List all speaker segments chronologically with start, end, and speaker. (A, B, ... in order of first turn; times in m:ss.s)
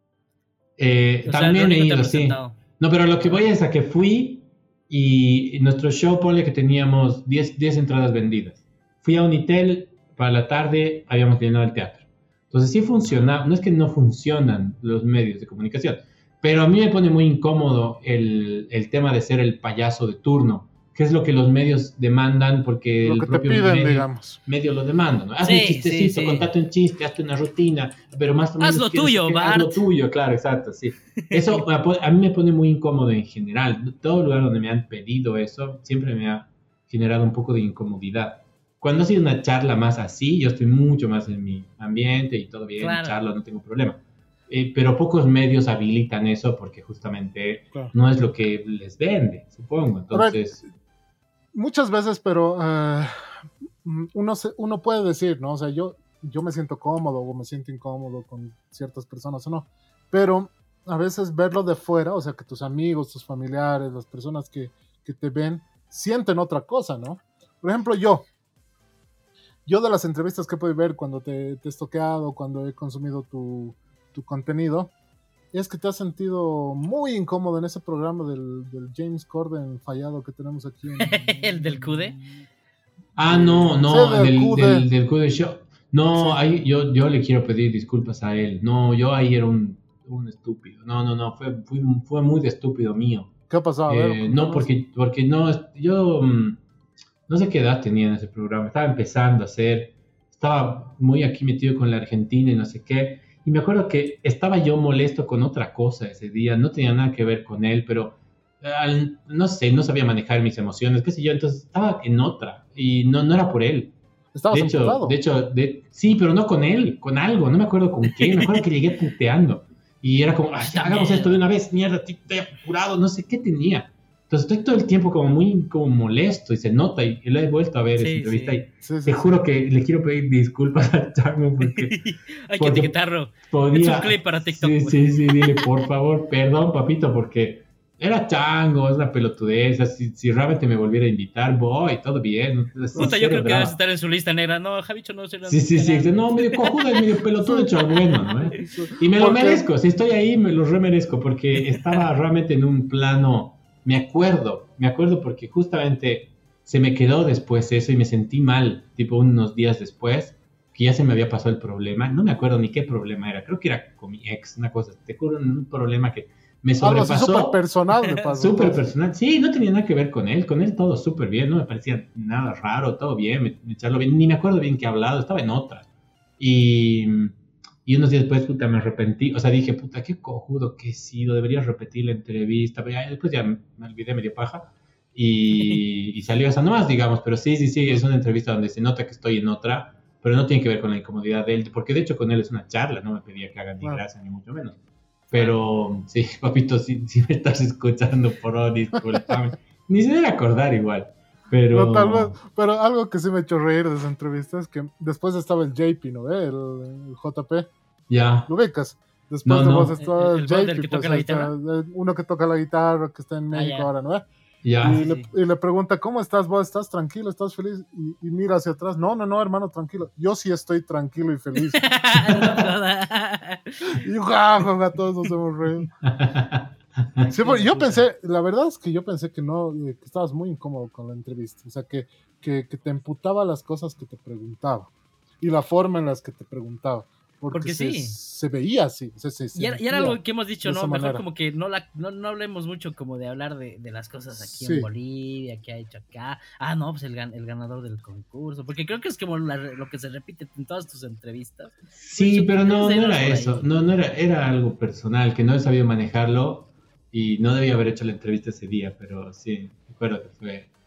0:00.8-0:50.6 A
0:01.2-0:02.6 B
0:23.0-0:24.4 C
0:25.4-0:26.5 B
0:28.6-0:29.8 B
0:31.3-0:31.6 B
0:42.8-0:43.2 B
0:50.1-0:50.4 C
0:51.5-1:08.2 C
1:09.6-1:14.9 C
1:15.5-1:22.0 C
1:21.0-1:22.2 B
1:23.2-1:33.3 A
1:23.3-1:24.8 C
1:33.5-1:34.7 C
1:33.9-1:36.6 A
1:37.3-1:53.9 A
1:54.3-1:55.2 C
1:54.5-2:12.0 A
1:58.2-1:58.6 B
2:00.6-2:01.4 B
2:08.0-2:08.6 B
2:08.8-2:09.4 C
2:11.7-2:15.7 B
2:12.6-2:23.8 A
2:22.9-2:23.2 C
2:22.9-2:26.7 B
2:25.4-2:47.6 A
2:27.4-2:27.8 C
2:28.5-2:29.6 C
2:31.7-2:32.0 B
2:46.8-2:48.8 C
2:48.2-2:55.9 A
2:56.4-2:57.3 A
2:57.8-3:14.8 A
3:15.3-3:22.4 A
3:21.7-3:27.7 C
3:28.1-3:28.5 A
3:28.5-3:34.2 C
3:29.4-3:29.9 A
3:30.0-3:31.5 B
3:33.5-3:33.9 B
3:34.6-3:35.0 A
3:34.8-3:41.8 C
3:34.9-3:35.3 B
3:41.7-3:44.0 B
3:42.4-3:42.7 A
3:44.0-3:45.9 C
3:46.0-3:46.6 A
3:47.2-3:48.0 B
3:47.3-3:54.9 C
3:55.4-4:01.2 C
3:57.5-3:58.2 B
3:59.5-4:13.7 B
4:04.5-4:04.9 C
4:12.0-4:20.7 A